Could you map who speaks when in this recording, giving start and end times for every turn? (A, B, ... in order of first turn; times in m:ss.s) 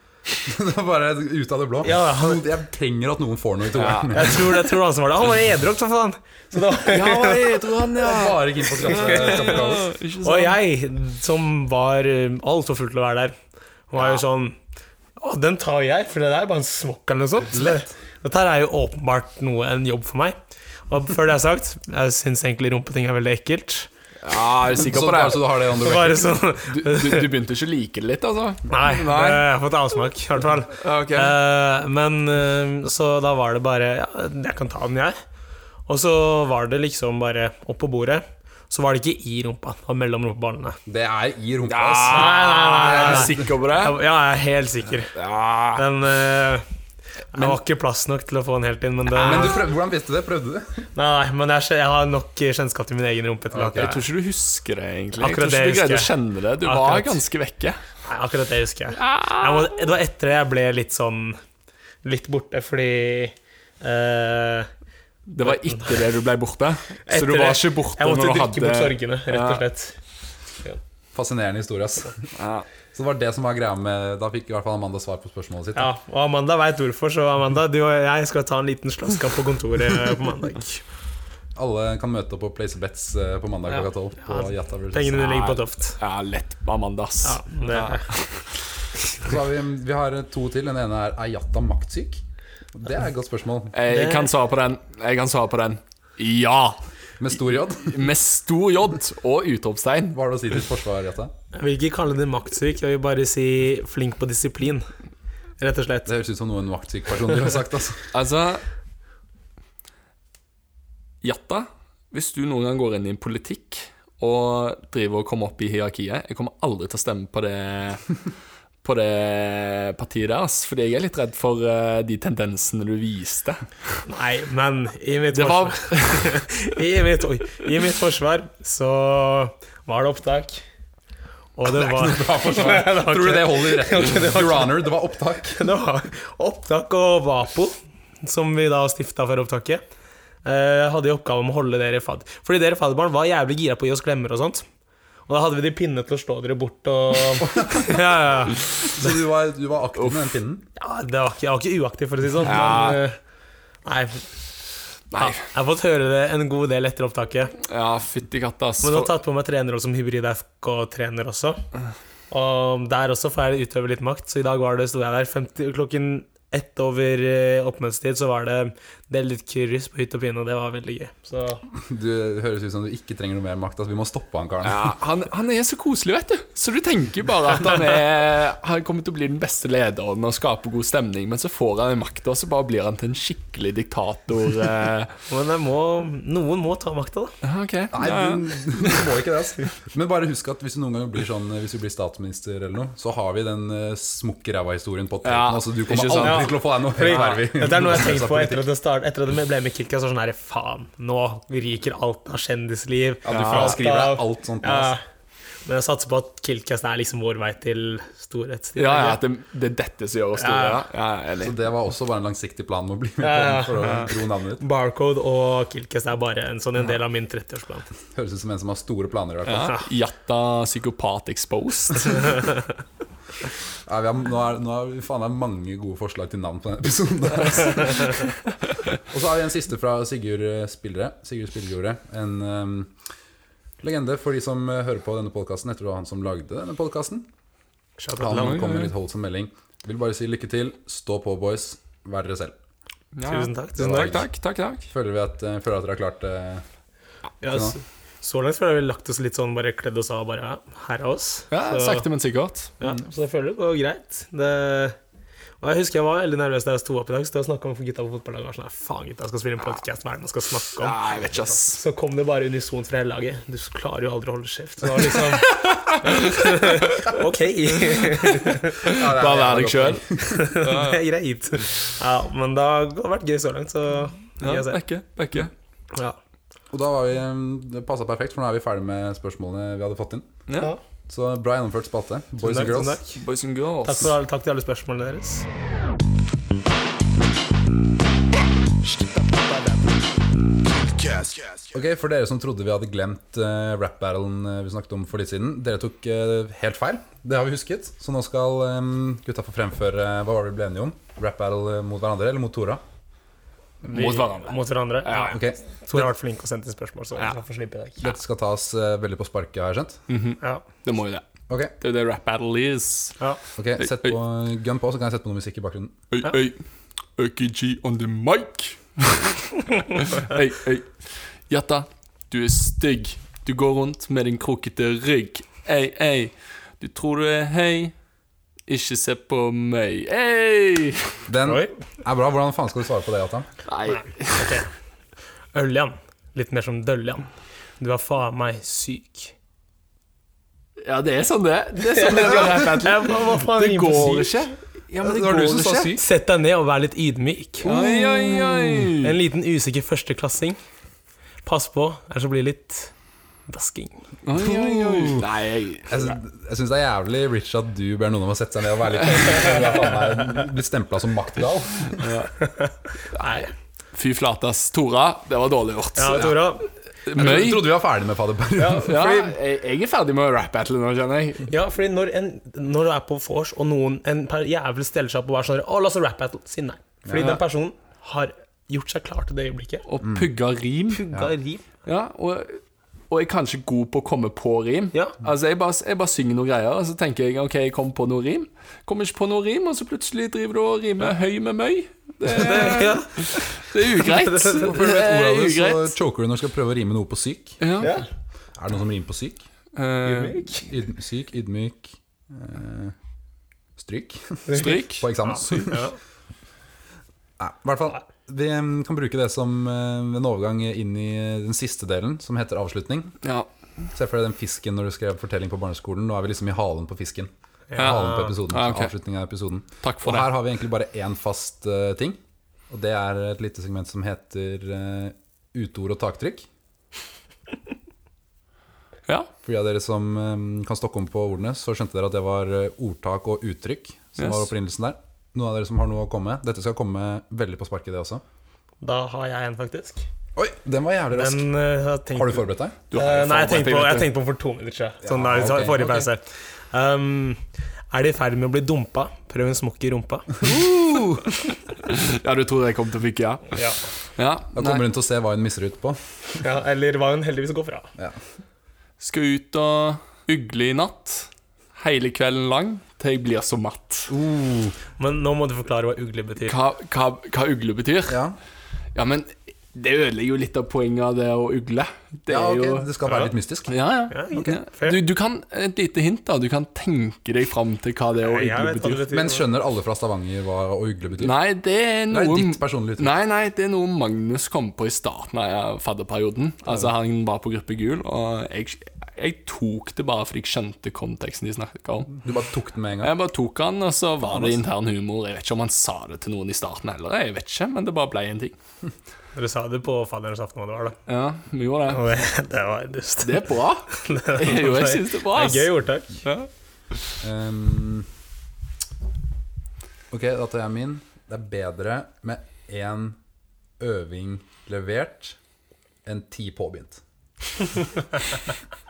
0:00.4-0:04.4 A
0:01.8-0:02.5 B
0:03.7-0:04.4 C
0:04.1-0:07.6 B
0:06.9-0:10.6 C
0:08.0-0:09.9 A
0:08.9-0:13.3 B
0:13.9-0:14.6 B
0:15.2-0:20.4 B
0:17.5-0:17.9 A
0:20.9-0:23.9 B
0:24.2-0:25.6 C
0:24.7-0:26.3 A
0:25.7-0:27.3 B
0:26.7-0:29.5 C
0:28.7-0:35.2 B
0:30.8-0:31.4 C
0:35.9-0:40.8 B
0:40.8-0:43.5 A
0:41.7-0:44.0 C
0:42.1-0:45.1 B
0:45.1-0:45.8 C
0:45.8-0:46.6 B
0:47.3-0:49.6 B
0:49.2-0:50.9 A
0:50.9-0:54.0 B
0:53.5-0:53.9 A
0:53.7-0:57.8 C
0:55.2-0:56.1 B
0:56.6-0:57.2 B
0:58.0-1:01.4 B
0:58.9-0:59.9 C
1:02.0-1:04.7 B
1:05.3-1:09.6 C
1:05.4-1:06.1 B
1:07.1-1:10.0 B
1:11.1-1:12.2 A
1:12.4-1:12.6 C
1:12.9-1:15.9 A
1:15.8-1:20.8 B
1:21.6-1:25.6 A
1:23.7-1:26.0 B
1:26.0-1:28.4 C
1:27.2-1:28.0 B
1:29.2-1:32.2 A
1:32.7-1:33.7 A
1:33.7-1:36.8 C
1:33.9-1:34.3 B
1:37.2-1:38.0 A
1:37.8-1:40.2 C
1:40.1-1:41.3 A
1:41.5-1:44.9 B
1:45.6-1:46.1 B
1:46.0-1:48.1 A
1:48.1-1:48.6 C
1:51.2-1:58.1 C
1:58.8-2:03.6 C
2:04.0-2:10.6 B
2:05.3-2:06.6 C
2:11.6-2:14.9 B
2:11.7-2:15.6 A
2:15.5-2:19.8 B
2:20.4-2:24.6 B
2:25.3-2:29.1 B
2:27.5-2:28.0 A
2:28.8-2:30.6 A
2:30.8-2:33.2 B
2:32.4-2:33.0 C
2:33.8-2:34.3 B
2:35.1-2:35.4 C
2:35.2-2:37.6 B
2:37.6-2:39.1 C
2:38.8-2:41.6 B
2:42.3-2:51.6 B
2:51.7-2:54.9 A
2:54.6-3:05.1 C
3:05.3-3:07.3 B
3:07.4-3:08.6 C
3:07.9-3:18.6 A
3:15.2-3:16.6 C
3:16.2-3:25.0 B
3:23.2-3:24.9 A
3:23.3-3:23.8 C
3:25.6-3:29.2 B
3:28.8-3:31.6 C
3:30.4-3:30.8 B
3:31.4-3:34.6 A
3:33.2-3:37.9 B
3:38.1-3:39.8 A
3:39.4-3:42.4 C
3:43.8-3:48.3 A
3:49.1-3:52.9 A
3:53.8-3:57.3 A
3:58.0-3:58.6 B
3:58.2-4:02.6 A
3:58.3-3:58.9 C
4:03.1-4:04.9 C
4:03.2-4:04.2 B
4:03.8-4:04.3 A
4:04.9-4:06.6 A
4:07.4-4:12.0 B
4:07.4-4:07.8 A
4:11.5-4:12.7 C
4:12.8-4:15.0 B
4:15.6-4:28.9 B
4:20.8-4:21.8 C
4:25.4-4:26.8 C
4:28.0-4:30.0 C
4:28.8-4:30.4 A
4:30.2-4:34.8 B
4:30.6-4:31.0 C
4:34.4-4:35.5 C
4:36.7-4:40.3 A
4:40.5-4:40.7 C
4:41.1-4:43.0 A
4:42.4-4:43.2 B
4:43.2-4:44.1 C
4:43.8-4:45.4 B
4:48.9-4:49.8 C
4:51.0-4:51.6 C
4:51.7-5:02.8 A
5:03.8-5:08.0 B
5:03.9-5:05.3 C
5:05.3-5:06.0 A
5:08.0-5:10.0 A
5:10.1-5:11.2 C
5:11.8-5:13.2 C
5:13.6-5:16.0 A
5:16.1-5:16.6 C
5:17.2-5:27.9 C
5:28.7-5:31.2 C
5:31.3-5:33.5 A
5:31.4-5:31.7 B
5:33.7-5:34.6 C
5:33.9-5:34.7 B
5:35.5-5:39.3 B
5:40.8-5:46.0 C
5:41.9-5:44.4 B
5:45.0-5:46.0 A
5:45.9-5:50.6 B
5:47.6-5:49.2 C
5:51.4-5:52.9 B
5:53.5-5:54.0 B
5:54.2-5:56.2 C
5:54.4-5:55.3 A
5:55.9-6:02.1 A
6:02.0-6:02.3 C
6:02.4-6:03.5 B
6:03.9-6:06.5 C
6:06.0-6:06.7 B
6:07.0-6:07.8 C
6:07.1-6:09.2 A
6:08.6-6:09.4 B
6:08.8-6:11.5 C
6:11.5-6:19.8 B
6:17.0-6:17.4 A
6:19.9-6:21.0 C
6:20.0-6:20.3 A
6:20.9-6:21.7 B
6:21.8-6:35.9 C
6:32.3-6:34.7 B
6:34.6-6:37.6 A
6:37.6-6:37.9 C
6:37.8-6:38.0 B
6:38.6-6:39.4 A
6:39.7-6:40.6 C
6:40.0-6:40.7 B
6:40.7-6:42.9 A
6:43.8-6:45.9 A
6:44.5-6:46.0 B
6:44.6-6:45.6 C
6:47.4-6:53.2 A
6:53.2-6:53.5 C
6:53.9-7:02.2 A
6:57.7-6:58.3 B
6:57.8-6:58.9 C
6:59.8-7:00.3 C
7:02.7-7:06.5 A
7:09.4-7:18.2 A
7:14.2-7:14.5 C
7:18.8-7:20.0 B
7:20.4-7:21.5 A
7:21.1-7:30.4 B
7:22.1-7:22.8 A
7:22.9-7:24.1 C
7:25.0-7:26.0 A
7:30.4-7:31.3 A
7:31.7-7:33.6 C
7:33.5-7:33.8 B
7:34.2-7:34.8 C
7:34.5-7:36.0 A
7:36.4-7:37.9 B
7:39.0-7:44.1 C
7:44.1-7:44.7 A
7:45.0-7:46.5 B
7:46.5-7:48.2 C
7:48.1-7:48.4 A
7:48.9-7:52.9 C
7:52.3-7:53.7 A
7:53.0-7:53.3 B
7:53.7-7:59.0 C
7:54.1-7:55.0 B
7:58.2-7:59.5 B
7:59.1-8:01.3 A
8:01.2-8:12.2 C
8:02.1-8:03.1 A
8:12.2-8:13.1 A
8:13.0-8:18.5 C
8:14.3-8:14.6 A
8:19.4-8:21.0 B
8:21.1-8:22.0 C
8:21.9-8:26.2 B
8:23.2-8:25.7 C
8:27.2-8:28.1 A
8:30.1-8:33.2 A
8:33.8-8:35.4 A
8:36.0-8:37.0 A